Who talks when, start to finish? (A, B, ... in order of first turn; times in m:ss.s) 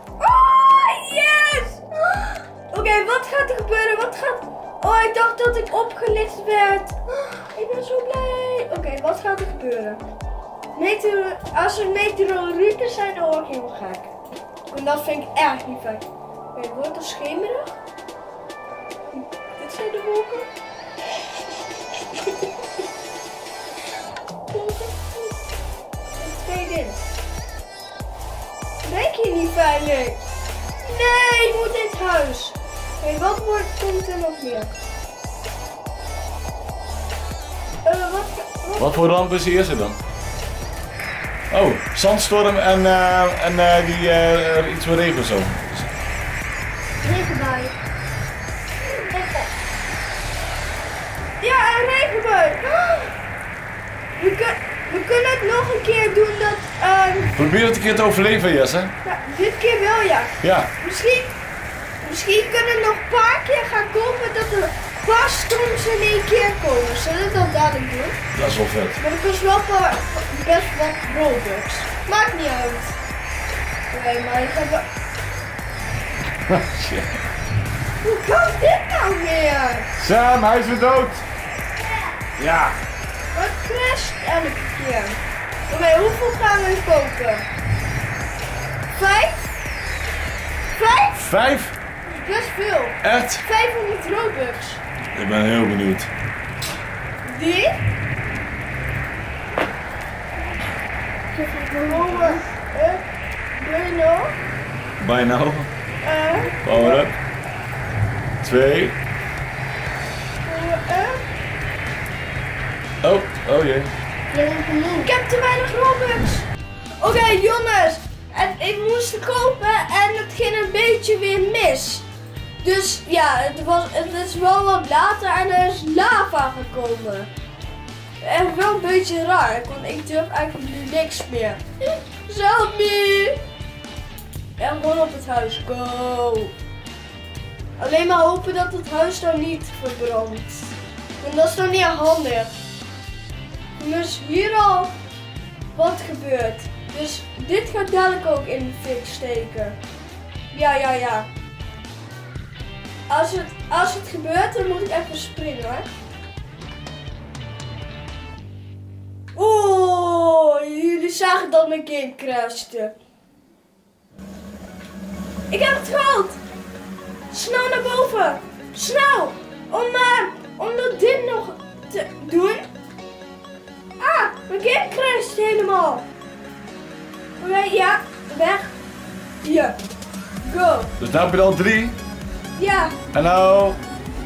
0:00.2-0:07.0 A
0:07.5-0:10.0 A
0:10.7-0:14.1 A
0:14.7-0:16.0 A
0:16.5-0:17.8 A
0:19.2-0:20.5 A
0:24.5-0:25.4 A
0:26.2-0:27.0 A
0:28.8-0:30.2 A
0:30.8-0:34.7 A
0:37.8-0:39.0 A
0:38.8-0:40.0 B
0:41.5-0:45.9 B
0:47.0-0:47.7 C
0:49.0-0:49.4 A
0:51.4-0:53.1 A
0:54.2-0:57.3 A
0:57.3-0:58.9 B
0:59.0-1:01.3 A
1:00.4-1:00.7 B
1:02.0-1:08.2 A
1:08.3-1:09.0 B
1:09.0-1:13.0 A
1:13.9-1:14.8 A
1:16.5-1:17.2 B
1:18.0-1:19.9 A
1:20.0-1:21.2 B
1:22.4-1:22.8 B
1:23.3-1:27.4 A
1:28.9-1:29.4 A
1:30.7-1:31.2 A
1:31.1-1:31.7 B
1:32.0-1:34.8 A
1:33.0-1:33.4 B
1:35.1-1:36.1 B
1:37.2-1:37.7 A
1:41.3-1:42.4 C
1:41.8-1:43.0 A
1:43.6-1:44.3 A
1:45.0-1:45.7 B
1:46.0-1:47.0 A
1:46.6-1:47.1 B
1:48.4-1:49.0 B
1:50.4-1:51.2 A
1:53.0-1:53.9 B
1:54.3-1:55.1 C
1:55.0-1:56.4 A
1:57.0-2:02.0 A
2:02.6-2:07.3 A
2:08.2-2:11.6 A
2:12.2-2:13.4 A
2:14.6-2:16.5 A
2:17.8-2:22.5 A
2:23.8-2:24.9 A
2:25.7-2:29.8 A
2:30.5-2:31.3 A
2:33.1-2:35.9 A
2:39.4-2:42.9 A
2:45.5-2:46.4 A
2:47.3-2:52.6 A
2:54.0-2:56.0 A
2:57.4-2:58.7 A
2:59.4-2:59.8 A
3:00.4-3:00.9 A
3:01.0-3:02.0 B
3:02.6-3:03.0 A
3:03.1-3:03.8 B